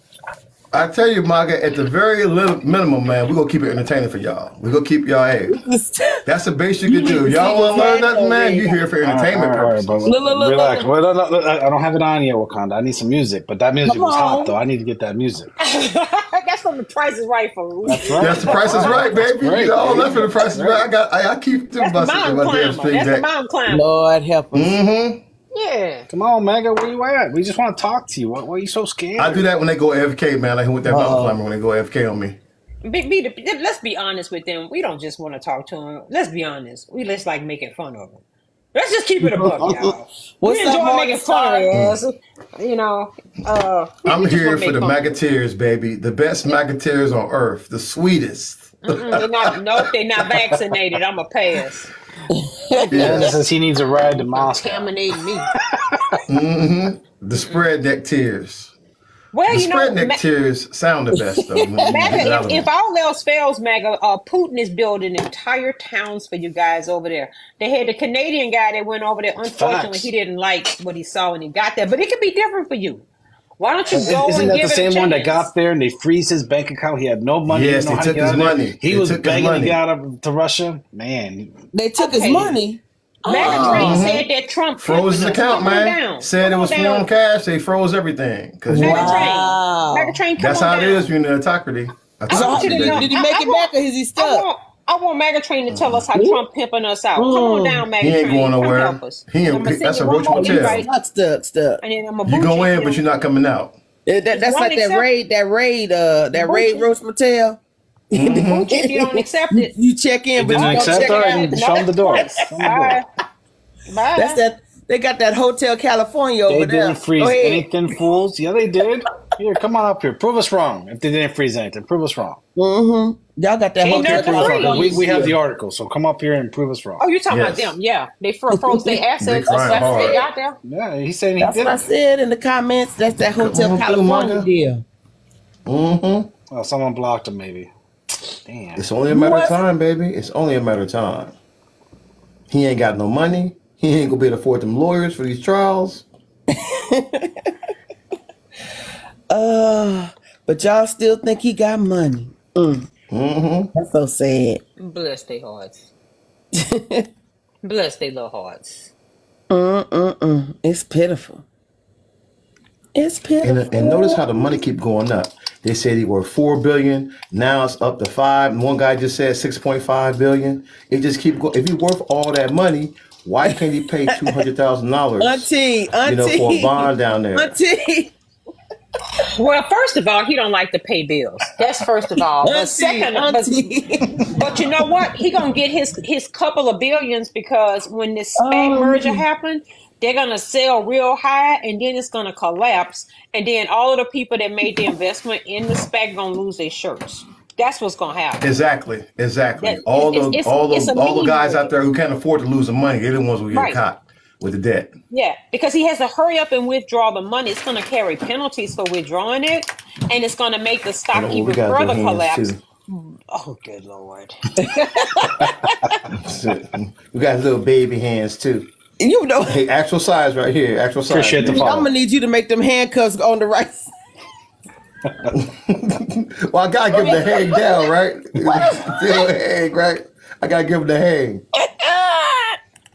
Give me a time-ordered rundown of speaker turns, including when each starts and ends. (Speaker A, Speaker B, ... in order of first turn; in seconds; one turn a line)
Speaker A: 0.7-5.6
Speaker B: 5.5-6.2
Speaker A: 6.3-9.9
Speaker B: 6.8-8.8
Speaker C: 9.0-15.5
Speaker B: 10.1-10.9
Speaker B: 13.8-14.6
Speaker D: 15.6-19.2
Speaker C: 17.9-20.9
Speaker A: 18.2-23.3
Speaker D: 21.8-23.9
Speaker B: 23.7-24.8
Speaker A: 24.5-25.2
Speaker D: 25.5-26.1
Speaker C: 26.1-29.4
Speaker A: 29.2-32.4
Speaker B: 30.9-31.4
Speaker D: 32.9-38.2
Speaker D: 38.8-45.1
Speaker B: 39.2-41.7
Speaker A: 41.7-42.0
Speaker A: 44.0-49.5
Speaker D: 48.9-51.9
Speaker B: 52.3-53.4
Speaker A: 52.9-53.4
Speaker C: 53.0-54.9
Speaker D: 54.3-55.5
Speaker A: 56.3-58.7
Speaker D: 57.4-57.6
Speaker D: 59.3-60.2
Speaker A: 59.5-62.7
Speaker B: 61.1-62.0
Speaker D: 61.9-73.0
Speaker C: 69.4-70.1
Speaker D: 73.6-75.5
Speaker C: 73.9-81.7
Speaker A: 77.5-79.8
Speaker B: 81.7-84.0
Speaker D: 82.0-82.6
Speaker D: 83.3-87.1
Speaker A: 83.4-84.3
Speaker A: 84.8-89.3
Speaker B: 88.7-90.2
Speaker D: 88.8-91.1
Speaker A: 90.4-93.1
Speaker B: 92.3-94.5
Speaker D: 92.3-100.9
Speaker A: 95.7-96.0
Speaker B: 96.1-96.5
Speaker B: 97.2-97.8
Speaker A: 98.0-100.9
Speaker B: 100.3-101.8
Speaker D: 101.8-103.0
Speaker A: 102.3-103.8
Speaker B: 104.1-107.6
Speaker D: 104.3-105.1
Speaker D: 106.3-106.9
Speaker A: 108.1-108.7
Speaker B: 108.1-112.7
Speaker D: 108.5-109.8
Speaker C: 110.4-113.0
Speaker D: 110.5-113.0
Speaker D: 113.9-114.4
Speaker B: 114.2-117.7
Speaker C: 116.5-122.4
Speaker B: 122.6-125.4
Speaker D: 123.8-125.0
Speaker C: 123.8-127.0
Speaker D: 127.0-130.6
Speaker A: 127.3-127.8
Speaker B: 128.6-129.0
Speaker A: 129.2-130.2
Speaker B: 129.7-130.2
Speaker C: 130.6-131.8
Speaker B: 131.4-134.8
Speaker A: 133.3-134.5
Speaker A: 135.7-136.3
Speaker C: 136.5-137.7
Speaker C: 138.5-138.8
Speaker A: 138.8-141.3
Speaker B: 139.1-139.6
Speaker A: 142.5-146.1
Speaker B: 146.5-147.5
Speaker B: 149.3-152.9
Speaker A: 153.1-153.7
Speaker B: 153.8-154.6
Speaker D: 154.8-155.9
Speaker B: 156.5-157.1
Speaker D: 157.6-158.9
Speaker B: 159.5-161.4
Speaker B: 162.9-164.5
Speaker A: 163.4-175.5
Speaker B: 174.1-174.4
Speaker B: 175.2-178.1
Speaker A: 176.1-177.6
Speaker D: 179.3-183.5
Speaker B: 182.4-184.5
Speaker D: 184.3-198.5
Speaker B: 188.4-189.2
Speaker A: 198.4-204.9
Speaker D: 199.6-201.8
Speaker D: 203.5-203.8
Speaker D: 205.1-214.4
Speaker A: 211.1-212.6
Speaker B: 214.6-216.0
Speaker A: 216.1-218.7
Speaker B: 219.0-219.6
Speaker A: 219.4-221.9
Speaker C: 221.1-221.9
Speaker B: 221.4-223.9
Speaker A: 225.3-231.4
Speaker B: 226.9-229.2
Speaker B: 231.6-232.6